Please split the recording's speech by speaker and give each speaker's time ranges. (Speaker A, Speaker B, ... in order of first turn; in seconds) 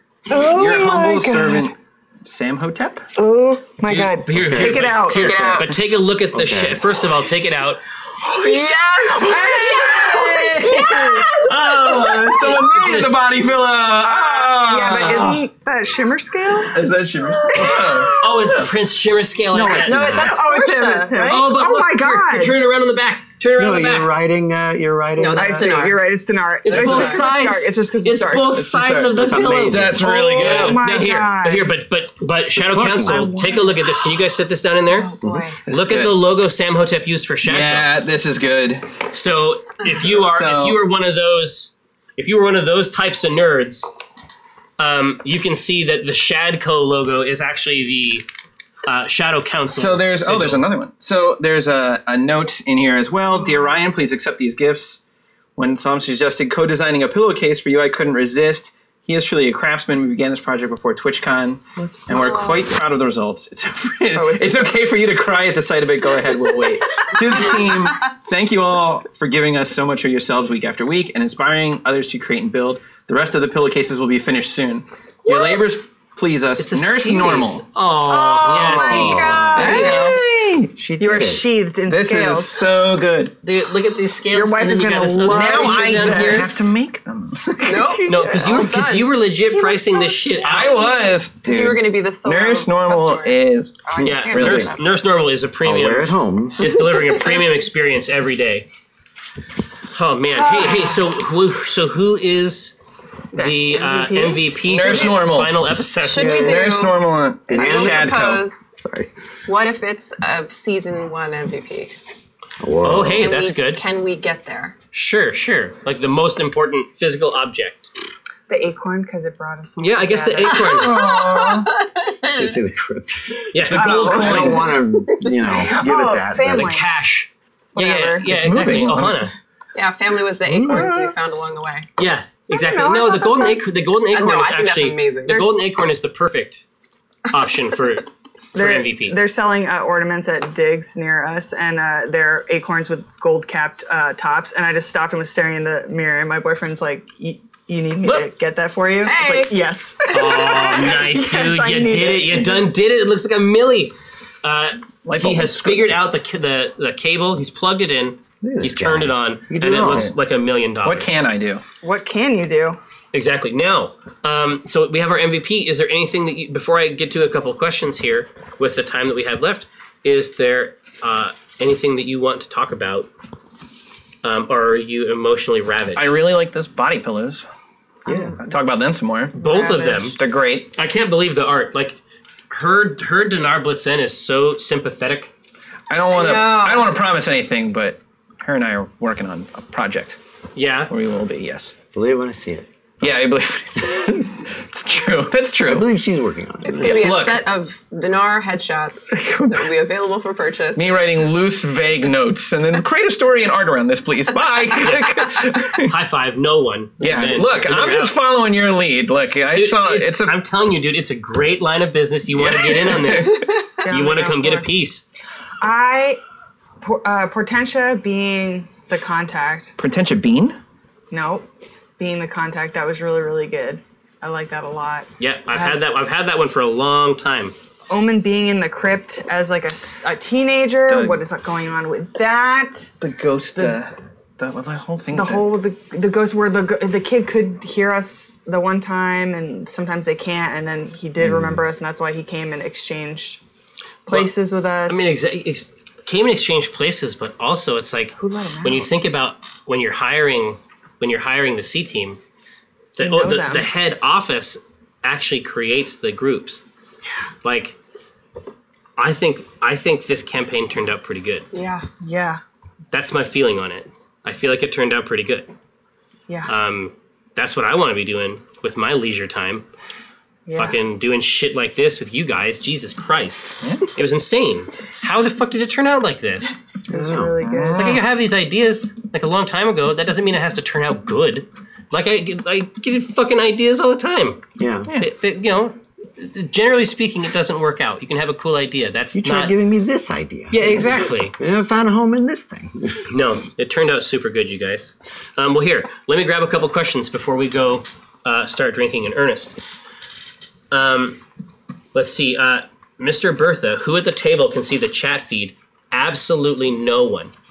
Speaker A: 0.3-1.7, 3.1-5.6, 8.2-11.3, 13.9-18.3, 19.9-22.6, 25.3-28.7, 29.9-31.7, 33.0-33.8, 61.8-62.7, 64.1-64.9, 78.1-80.2, 81.0-82.7, 84.3-86.7, 87.7-88.4, 100.3-101.0, 103.3-104.6, 118.5-121.5, 123.7-126.9, 127.7-128.3, 130.6-131.1, 132.5-133.6, 138.5-152.3, 161.8-162.8, 178.1-178.4, 179.3-180.2, 213.8-214.7, 215.6-216.2, 216.8-219.8, 221.1-221.4, 222.0-225.8, 227.9-233.0, 235.1-243.4, 244.1-245.1, 248.2-248.9, 253.0-253.7, 262.0-262.4, 270.4-270.8, 276.9-277.9
Speaker B: 0.3-3.0, 4.5-5.7, 9.2-15.4, 16.6-18.7, 28.5-30.8, 35.6-36.2, 37.4-38.9, 40.2-40.8, 49.7-55.0, 55.6-77.6, 78.4-81.3, 81.8-83.3, 85.2-88.0, 90.4-94.7, 104.6-105.5, 106.2-108.5, 120.4-121.7, 123.6-124.8, 128.2-129.3, 148.0-148.3, 152.3-152.7, 155.0-155.9, 159.7-160.1, 160.8-161.6, 175.9-177.4, 178.3-179.3, 180.1-180.7, 185.9-190.2, 190.9-191.7, 193.0-195.9, 196.8-197.5, 199.1-199.7, 200.7-205.9, 207.0-210.4, 212.3-213.4, 219.8-220.6, 230.9-231.2, 233.0-235.5, 273.6-273.9, 277.5-278.0
Speaker C: 3.8-7.8, 12.5-13.2, 18.2-20.3, 21.2-24.1, 26.6-35.1, 35.7-37.9, 39.1-43.9, 44.8-48.2, 48.9-50.7, 76.6-80.0, 83.4-86.5, 88.1-90.8, 94.0-98.7, 99.9-102.7, 103.3-106.6, 112.8-113.8, 114.9-117.9, 119.8-121.0, 123.5-124.7, 126.5-129.3, 132.0-136.6, 137.3-139.2, 150.1-161.1, 163.1-173.1, 174.2-176.1, 179.4-180.2, 180.7-182.0, 182.5-185.3, 190.5-190.9, 204.8-208.1, 209.5-215.0, 225.2-227.5, 244.9-252.2, 252.9-256.6, 257.4-257.8, 259.0-261.5, 262.9-265.5, 266.4-269.6, 270.6-276.6, 277.8-284.4, 285.0-289.5, 290.5-291.3, 293.1-299.6, 300.7-301.2, 301.9-307.3
Speaker D: 4.4-4.9, 6.3-6.8, 19.5-20.3, 23.6-25.8, 29.1-30.1, 32.5-33.4, 78.7-79.8, 81.1-81.4, 94.0-94.7, 95.6-96.7, 106.2-106.6, 107.5-109.1, 112.6-113.3, 122.2-123.5, 124.1-126.7, 130.5-130.9, 158.4-160.1, 191.9-192.7, 195.6-197.0, 241.2-241.6, 276.9-277.4, 284.6-284.9, 289.1-293.1
Speaker E: 5.1-5.7, 8.2-12.6, 19.8-21.4, 25.1-26.0, 26.6-27.3, 34.9-35.6, 87.7-94.8, 104.8-105.3, 106.0-108.7, 109.5-111.9, 113.0-114.7, 121.1-121.6, 129.7-131.9, 134.1-135.8, 149.0-149.5, 150.2-150.7, 186.1-187.0, 196.6-200.9, 261.5-261.9